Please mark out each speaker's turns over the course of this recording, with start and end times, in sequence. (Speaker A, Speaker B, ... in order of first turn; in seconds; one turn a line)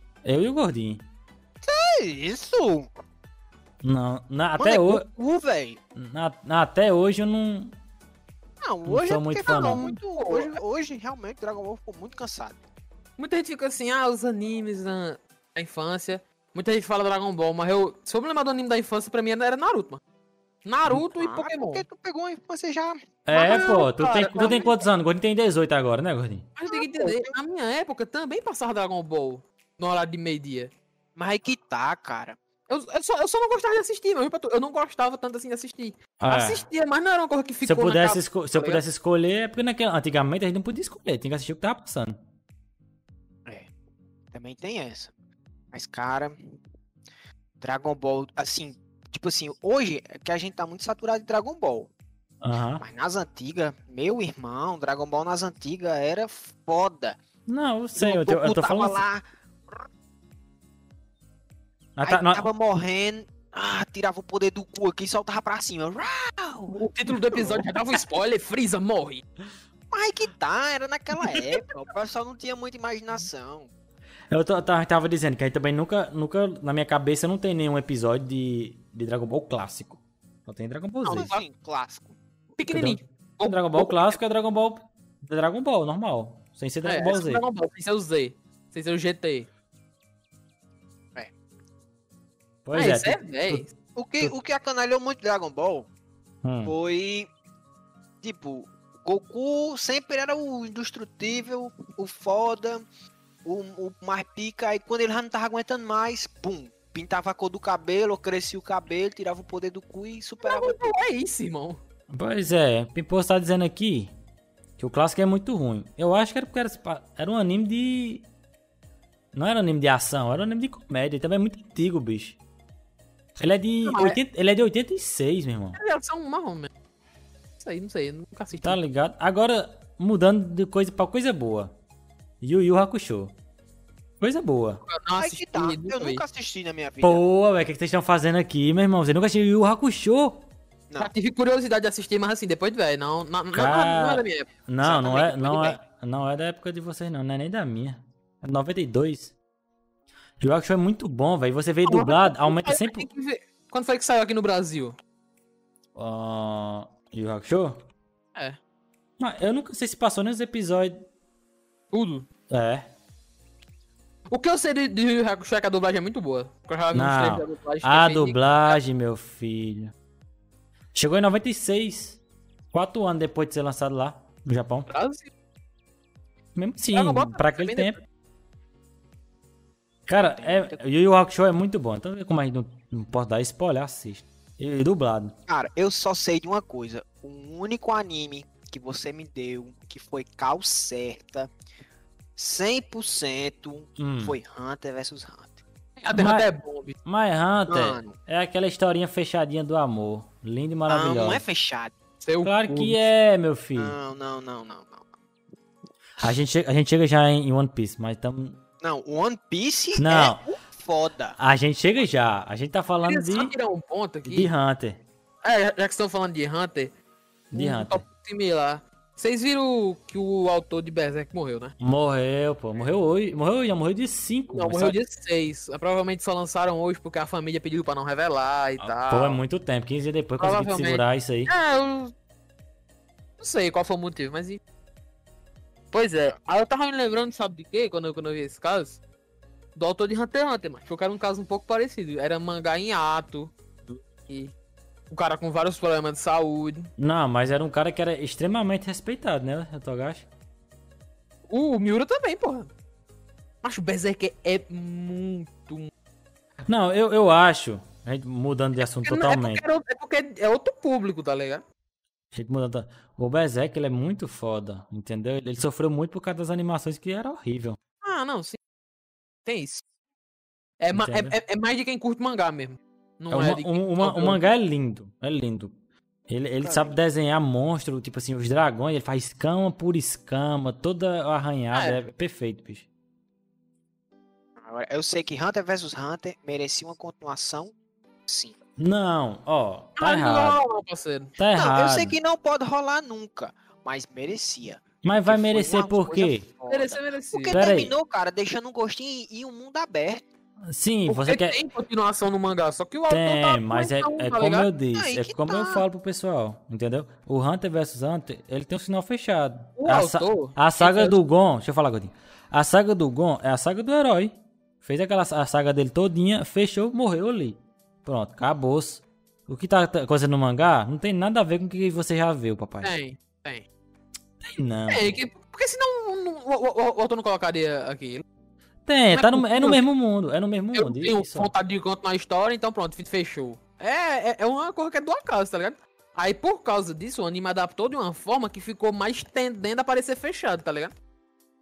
Speaker A: 0.2-1.1
Speaker B: 1.6-2.9
Speaker A: 3.8-5.1
Speaker B: 4.6-5.8
Speaker A: 6.0-7.8
Speaker B: 8.6-12.6
Speaker A: 8.9-9.8
Speaker C: 9.5-10.5
Speaker C: 13.2-20.0
Speaker C: 20.7-21.8
Speaker B: 20.9-24.8
Speaker A: 23.3-26.5
Speaker C: 23.3-24.7
Speaker C: 26.6-30.7
Speaker B: 26.7-27.3
Speaker B: 31.2-32.4
Speaker C: 32.7-38.8
Speaker A: 36.2-36.6
Speaker A: 37.6-42.2
Speaker B: 44.3-45.1
Speaker B: 45.7-46.5
Speaker B: 47.6-51.9
Speaker A: 52.4-52.8
Speaker B: 52.8-57.2
Speaker A: 57.5-59.0
Speaker B: 58.0-59.9
Speaker A: 62.0-62.5
Speaker B: 62.0-68.0
Speaker C: 66.7-69.2
Speaker B: 69.9-73.7
Speaker A: 74.3-81.3
Speaker C: 81.0-81.4
Speaker B: 81.1-82.2
Speaker C: 82.6-84.2
Speaker A: 82.7-87.4
Speaker C: 86.8-89.5
Speaker A: 92.7-93.6
Speaker C: 92.8-93.7
Speaker B: 94.0-95.9
Speaker A: 96.4-96.8
Speaker B: 96.7-97.3
Speaker B: 98.2-102.8
Speaker B: 103.5-110.9
Speaker C: 110.4-111.8
Speaker A: 112.1-114.1
Speaker A: 114.8-118.3
Speaker A: 119.3-122.4
Speaker A: 123.4-125.8
Speaker C: 123.8-124.2
Speaker C: 125.8-126.7
Speaker C: 127.6-128.8
Speaker A: 128.6-131.7
Speaker A: 132.4-133.3
Speaker A: 134.2-134.8
Speaker C: 134.9-136.2
Speaker B: 135.2-137.2
Speaker A: 137.0-140.5
Speaker C: 141.0-144.5
Speaker A: 143.5-149.3
Speaker B: 144.8-145.8
Speaker A: 150.4-153.1
Speaker C: 151.8-155.0
Speaker A: 155.9-157.8
Speaker A: 159.2-161.0
Speaker C: 161.9-162.3
Speaker A: 162.5-162.9
Speaker C: 164.3-168.8
Speaker A: 166.9-169.9
Speaker A: 170.9-172.2
Speaker A: 172.7-174.9
Speaker C: 174.9-175.3
Speaker A: 176.6-178.0
Speaker C: 176.9-178.0
Speaker A: 180.1-185.4
Speaker B: 180.2-180.8
Speaker B: 185.5-191.5
Speaker B: 192.4-195.6
Speaker A: 194.0-194.4
Speaker C: 196.0-196.9
Speaker A: 196.1-196.5
Speaker A: 197.1-201.4
Speaker B: 197.7-198.2
Speaker B: 200.9-201.9
Speaker C: 202.2-203.0
Speaker A: 202.4-204.0
Speaker B: 203.8-205.1
Speaker A: 206.2-208.6
Speaker B: 208.8-211.4
Speaker A: 210.0-210.4
Speaker A: 211.4-213.5
Speaker C: 213.1-214.5
Speaker A: 214.2-215.0
Speaker C: 215.4-216.9
Speaker A: 217.5-218.0
Speaker C: 217.5-221.7
Speaker A: 221.8-225.0
Speaker C: 224.5-229.4
Speaker A: 228.8-231.5
Speaker C: 230.4-232.1
Speaker C: 233.4-234.6
Speaker C: 235.9-239.0
Speaker C: 239.8-243.5
Speaker C: 245.1-246.9
Speaker A: 247.0-250.3
Speaker C: 251.5-252.7
Speaker C: 253.6-255.9
Speaker A: 256.7-259.6
Speaker C: 259.0-261.6
Speaker A: 262.3-267.8
Speaker C: 268.0-268.6
Speaker C: 269.4-269.8
Speaker C: 270.8-274.5
Speaker A: 270.9-271.4
Speaker A: 273.3-275.7
Speaker A: 276.3-282.9
Speaker B: 276.6-277.0
Speaker C: 281.7-282.0
Speaker B: 284.6-287.7
Speaker B: 288.3-288.6
Speaker A: 288.8-290.6
Speaker C: 290.0-291.3
Speaker A: 291.4-292.2
Speaker B: 291.6-300.2
Speaker A: 295.0-296.4
Speaker C: 296.7-297.6
Speaker A: 297.5-297.9
Speaker A: 300.7-301.6
Speaker C: 301.1-304.7
Speaker A: 303.1-322.9
Speaker B: 304.9-305.9
Speaker C: 309.8-311.2
Speaker C: 322.8-323.6
Speaker A: 324.4-325.2
Speaker C: 324.9-328.2
Speaker A: 328.9-331.5
Speaker C: 329.1-329.8
Speaker C: 330.8-340.9